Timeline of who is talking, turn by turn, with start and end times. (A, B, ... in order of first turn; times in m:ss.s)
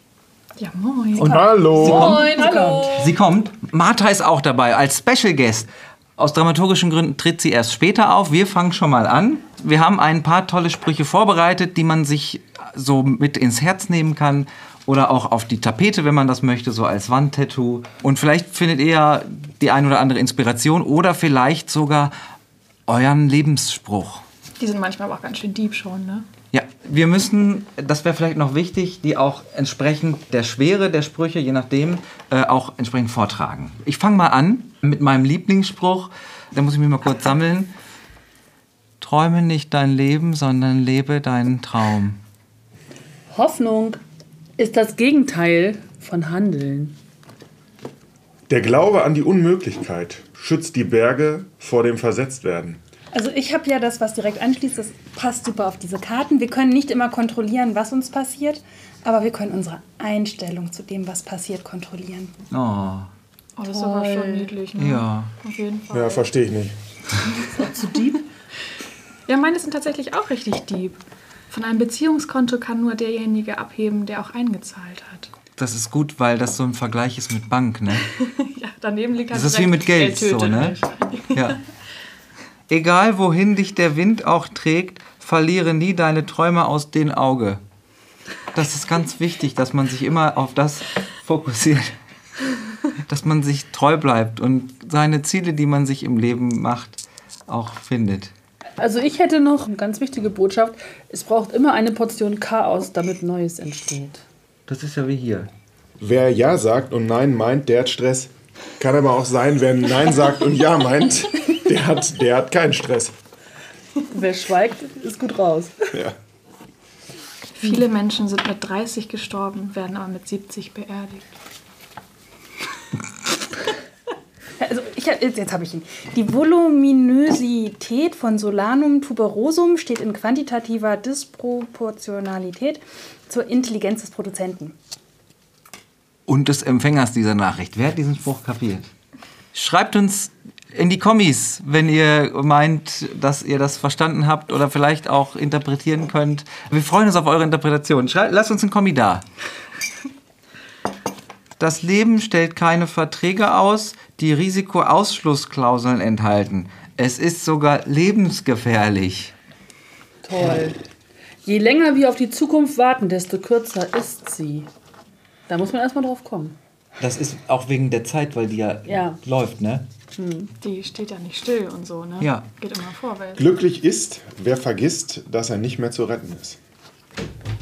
0:00.6-0:01.5 A
0:01.2-0:22.1 B
0:01.2-0:02.2 C
0:01.7-0:03.2 D
0:22.9-0:24.2 B
0:24.6-0:26.2 A
0:26.5-0:37.7 B
0:39.0-0:42.2 B
0:43.3-0:44.0 D
0:44.6-0:46.9 D
0:48.5-0:52.8 C
0:53.1-1:02.4 E
1:02.5-1:03.1 B
1:03.6-1:06.2 A
1:03.7-1:04.5 D
1:04.7-1:05.3 B
1:05.9-1:06.8 C
1:07.5-1:08.2 D
1:09.3-1:15.3 A
1:15.6-1:18.0 B
1:18.0-1:21.6 A
1:19.3-1:20.8 B
1:21.3-1:21.6 B
1:22.7-1:27.6 B
1:28.5-1:31.9 B
1:33.0-1:38.3 B
1:38.8-1:44.2 D
1:44.7-1:45.5 B
1:46.0-1:53.1 C
1:54.1-1:55.8 D
1:57.6-2:01.2 A
2:04.6-2:14.7 E
2:16.3-2:18.9 B
2:19.5-2:29.2 B
2:31.6-2:39.3 B
2:40.2-2:40.8 D
2:41.4-2:44.7 D
2:45.5-2:46.6 D
2:47.0-2:49.9 B
2:48.8-2:49.2 D
2:50.2-2:50.5 D
2:50.6-2:53.4 A
2:52.2-2:52.5 B
2:53.4-2:56.6 C